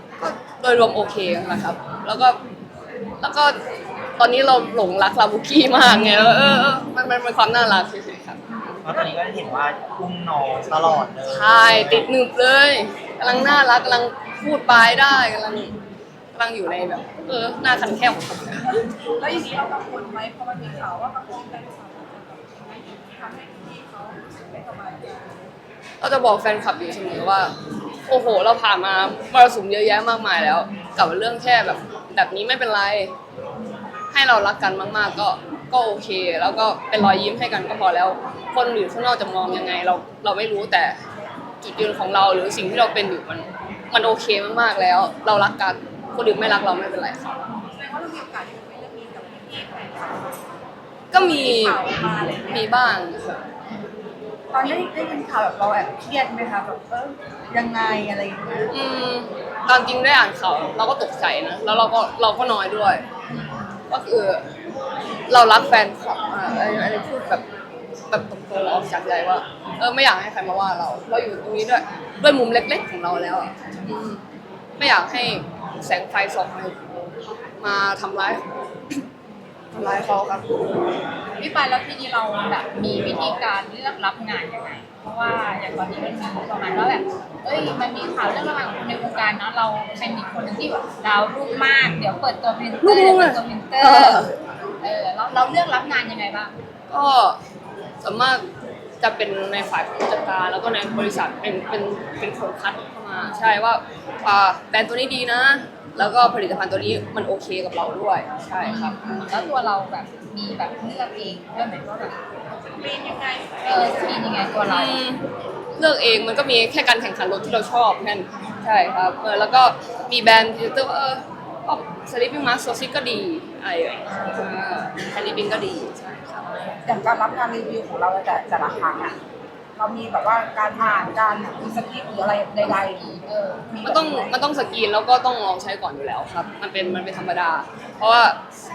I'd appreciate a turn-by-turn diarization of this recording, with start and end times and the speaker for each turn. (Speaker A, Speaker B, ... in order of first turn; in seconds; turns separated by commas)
Speaker A: 0.2-2.4, Speaker A: 3.2-3.6, Speaker A: 4.2-8.4, Speaker B: 8.8-12.1, Speaker A: 11.2-15.7, Speaker A: 16.3-18.7, Speaker C: 19.2-25.5, Speaker A: 26.0-27.5, Speaker A: 28.1-33.1, Speaker A: 34.1-41.0, Speaker A: 41.6-47.4, Speaker C: 47.7-50.4, Speaker A: 51.1-53.4, Speaker C: 51.1-52.8, Speaker D: 54.5-58.7, Speaker A: 58.7-63.0, Speaker A: 63.9-64.4, Speaker A: 65.3-67.4, Speaker A: 68.1-74.2, Speaker A: 74.8-76.8, Speaker A: 77.6-78.5, Speaker A: 79.7-80.5, Speaker E: 81.4-94.3, Speaker B: 91.8-92.2, Speaker A: 92.8-94.3, Speaker E: 94.8-96.5, Speaker A: 96.9-97.4, Speaker A: 98.0-98.4, Speaker A: 99.0-109.5, Speaker E: 108.6-112.1, Speaker C: 112.7-114.2, Speaker E: 113.6-115.0, Speaker A: 114.6-115.2, Speaker A: 115.8-126.8, Speaker D: 126.8-129.1, Speaker D: 129.8-134.3, Speaker A: 133.8-138.4